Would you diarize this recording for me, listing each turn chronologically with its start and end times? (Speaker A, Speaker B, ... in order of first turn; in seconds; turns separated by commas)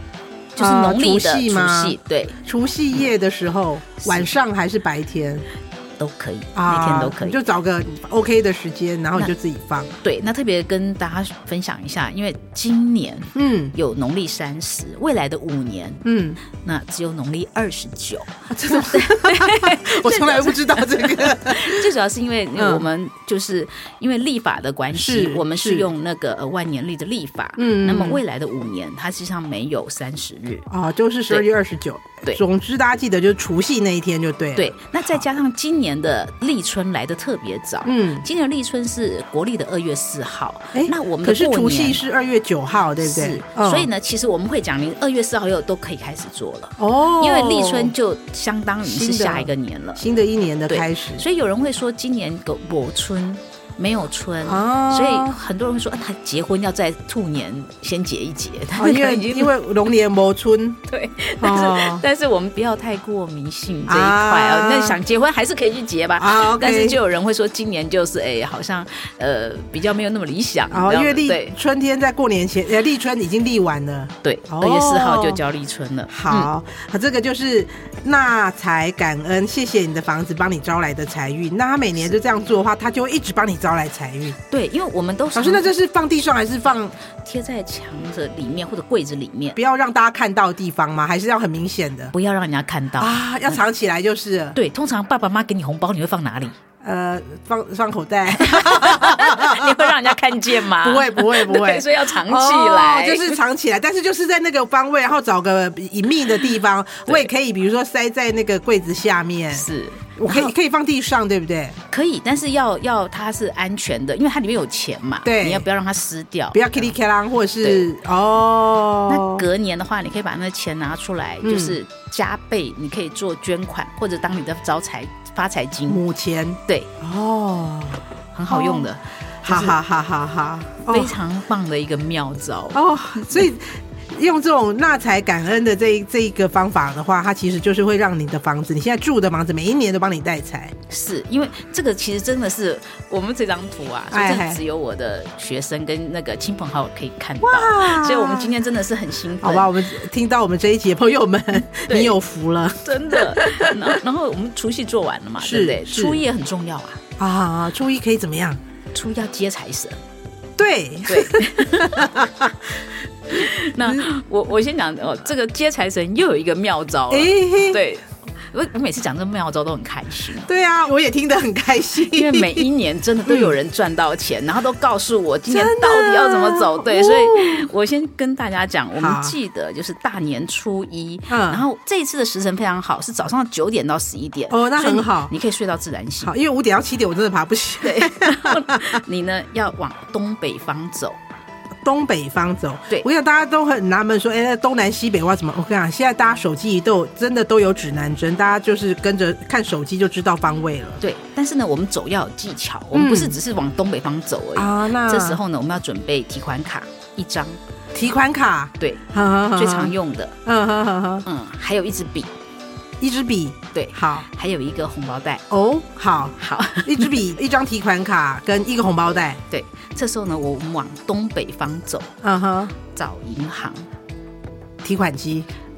Speaker A: 0.6-2.4, Speaker B: 0.6-5.4, Speaker A: 4.0-4.3, Speaker A: 6.0-7.4, Speaker B: 6.5-9.9, Speaker A: 10.0-30.7, Speaker B: 13.4-13.8, Speaker B: 16.1-16.4, Speaker B: 18.5-21.9, Speaker B: 22.6-22.9, Speaker B: 24.9-25.9, Speaker B: 27.6-28.2, Speaker B: 30.7-35.2, Speaker A: 34.6-42.0, Speaker B: 37.9-38.2, Speaker B: 40.7-43.9, Speaker A: 43.0-50.0, Speaker B: 46.8-47.9, Speaker B: 48.8-51.2, Speaker A: 50.7-59.5, Speaker B: 54.4-55.3, Speaker B: 58.8-60.8, Speaker A: 60.9-71.6, Speaker B: 61.4-62.0, Speaker B: 63.9-65.0, Speaker B: 66.2-67.0, Speaker B: 70.7-75.4, Speaker A: 74.2-76.5, Speaker B: 76.1-84.4, Speaker A: 84.5-85.7, Speaker B: 85.3-86.9, Speaker A: 87.2-89.6, Speaker B: 89.6-92.1, Speaker A: 92.1-93.6, Speaker B: 93.0-94.6, Speaker A: 94.5-96.6, Speaker B: 96.8-109.7, Speaker A: 98.4-103.4, Speaker A: 109.5-110.5, Speaker B: 110.2-111.8, Speaker A: 111.9-116.9, Speaker B: 115.2-115.7, Speaker B: 116.5-119.4, Speaker A: 119.1-126.0, Speaker B: 121.4-121.8, Speaker B: 125.9-128.9, Speaker A: 128.3-129.8, Speaker B: 129.4-131.2, Speaker A: 130.9-133.5, Speaker B: 132.7-140.8, Speaker A: 140.9-149.8, Speaker B: 144.1-144.6, Speaker B: 147.4-148.5, Speaker B: 149.4-154.0, Speaker A: 151.9-152.2, Speaker A: 152.8-157.0, Speaker B: 155.4-156.2, Speaker B: 157.2-158.6, Speaker A: 158.9-160.0, Speaker B: 160.6-162.5, Speaker A: 161.1-162.3, Speaker A: 163.3-170.5, Speaker B: 167.1-167.8, Speaker B: 170.5-172.7, Speaker A: 172.0-186.3, Speaker B: 173.2-173.5, Speaker B: 175.5-177.7, Speaker B: 179.0-179.3, Speaker B: 181.3-181.6, Speaker B: 184.5-185.3, Speaker B: 186.2-189.0, Speaker A: 187.8-191.2, Speaker B: 191.8-201.0, Speaker A: 201.0-207.6, Speaker B: 202.9-203.4, Speaker B: 204.6-205.4, Speaker B: 207.9-209.9, Speaker A: 208.8-210.4, Speaker B: 210.5-211.2, Speaker A: 211.2-212.3, Speaker B: 213.0-214.2, Speaker A: 213.7-215.4, Speaker B: 215.5-219.4, Speaker A: 216.4-217.2, Speaker A: 219.5-222.1, Speaker B: 222.2-222.8, Speaker A: 222.9-223.9, Speaker B: 224.8-225.5